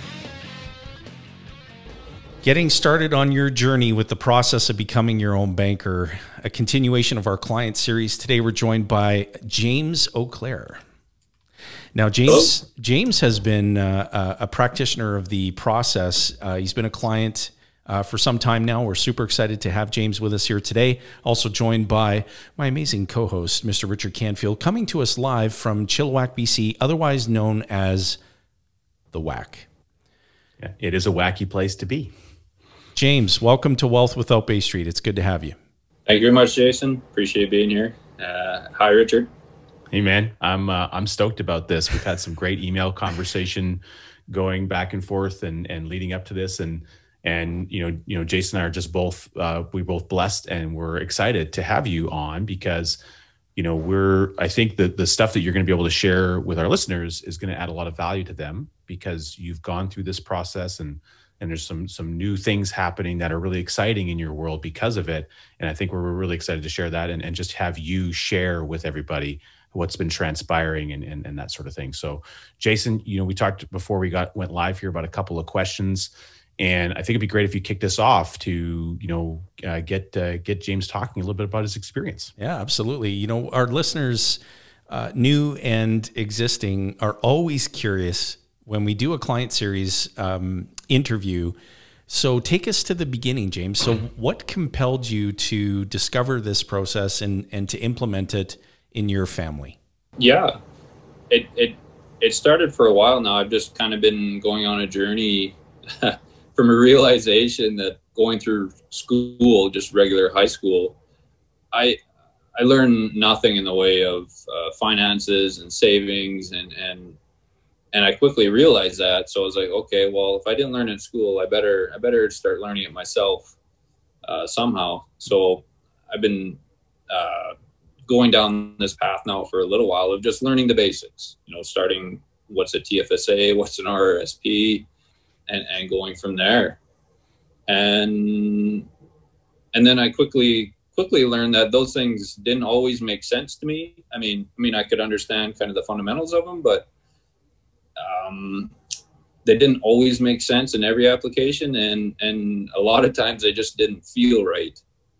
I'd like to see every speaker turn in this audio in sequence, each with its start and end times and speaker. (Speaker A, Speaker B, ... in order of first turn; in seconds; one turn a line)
Speaker A: 2.4-10.8
Speaker A: 11.9-28.2
Speaker A: 29.1-29.7
Speaker B: 30.6-32.1
Speaker A: 32.9-35.5
Speaker C: 36.1-39.3
Speaker B: 39.9-53.0
Speaker B: 53.5-82.3
Speaker A: 82.4-91.5
Speaker A: 92.1-99.8
Speaker C: 100.2-100.6
Speaker C: 101.3-111.0
Speaker C: 111.7-112.0
Speaker C: 112.5-117.2
Speaker C: 117.9-123.5
Speaker C: 124.2-127.5
Speaker C: 128.1-134.8
Speaker C: 135.5-136.8
Speaker C: 137.7-138.8
Speaker C: 139.7-146.9
Speaker C: 148.0-148.7
Speaker C: 149.4-154.8